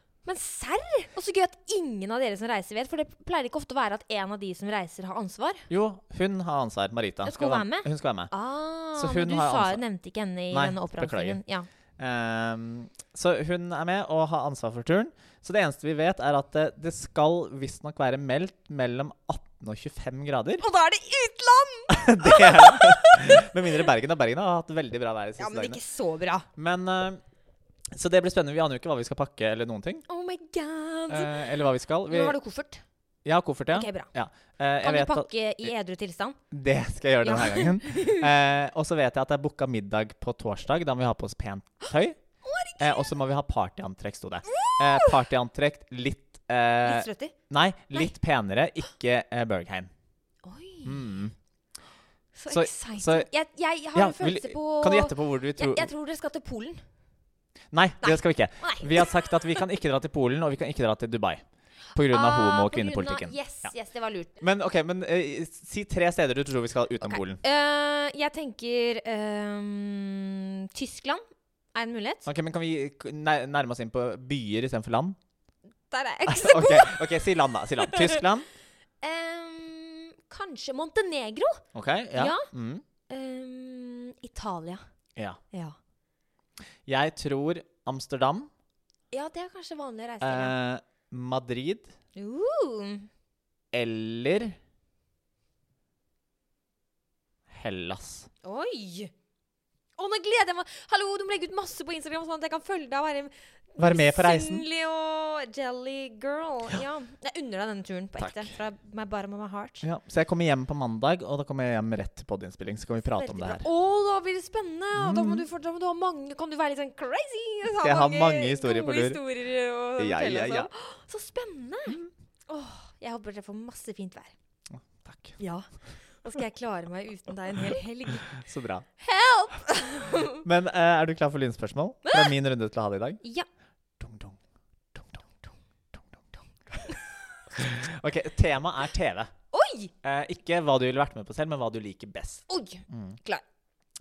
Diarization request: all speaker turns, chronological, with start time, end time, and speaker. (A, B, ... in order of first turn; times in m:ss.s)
0:00.3-0:05.7 A
0:05.7-0:08.3 B
0:07.2-0:11.7 A
0:09.0-0:09.8 B
0:10.5-0:11.4 B
0:12.0-0:20.6 B
0:20.6-0:23.5 A
0:21.9-0:25.8 B
0:25.4-0:26.5 A
0:26.6-0:27.2 B
0:27.9-0:30.0 B
0:30.1-0:31.4 A
0:31.1-0:32.4 B
0:32.1-0:32.8 A
0:33.2-0:35.7 B
0:33.7-0:34.1 A
0:34.8-0:36.4 A
0:36.5-0:42.2 B
0:37.2-0:38.3 A
0:42.4-0:43.1 A
0:42.8-0:49.9 B
0:44.5-0:45.2 A
0:46.8-0:47.3 A
0:50.4-0:51.1 A
0:50.8-0:51.3 B
0:52.4-0:56.8 A
0:52.5-0:53.3 B
0:53.9-0:55.9 B
0:57.7-1:01.4 B
0:58.0-0:59.5 A
1:01.9-1:03.7 B
1:02.0-1:04.3 A
1:04.4-1:07.4 B
1:07.0-1:11.2 A
1:11.7-1:12.3 A
1:12.3-1:15.2 B
1:15.9-1:17.0 A
1:16.3-1:18.5 B
1:17.8-1:18.2 A
1:19.0-1:21.6 A
1:21.8-1:22.8 B
1:22.2-1:22.5 A
1:23.1-1:24.9 A
1:26.9-1:28.5 B
1:29.1-1:30.6 A
1:30.2-1:31.9 B
1:32.2-1:33.1 A
1:33.7-1:34.6 B
1:37.5-1:38.3 B
1:38.4-1:39.1 A
1:40.0-1:49.9 A
1:43.8-1:44.6 B
1:48.2-1:48.5 B
1:49.8-1:53.7 B
1:53.2-2:04.3 A
1:54.9-1:55.5 B
1:57.7-1:59.2 B
2:00.0-2:00.7 B
2:04.7-2:05.4 B
2:05.4-2:08.4 A
2:08.2-2:08.9 B
2:09.0-2:10.4 A
2:10.4-2:13.2 B
2:12.0-2:12.3 A
2:13.2-2:13.5 A
2:14.0-2:14.4 B
2:14.9-2:15.2 B
2:17.5-2:19.3 B
2:19.5-2:19.9 A
2:20.0-2:23.2 B
2:22.5-2:23.4 A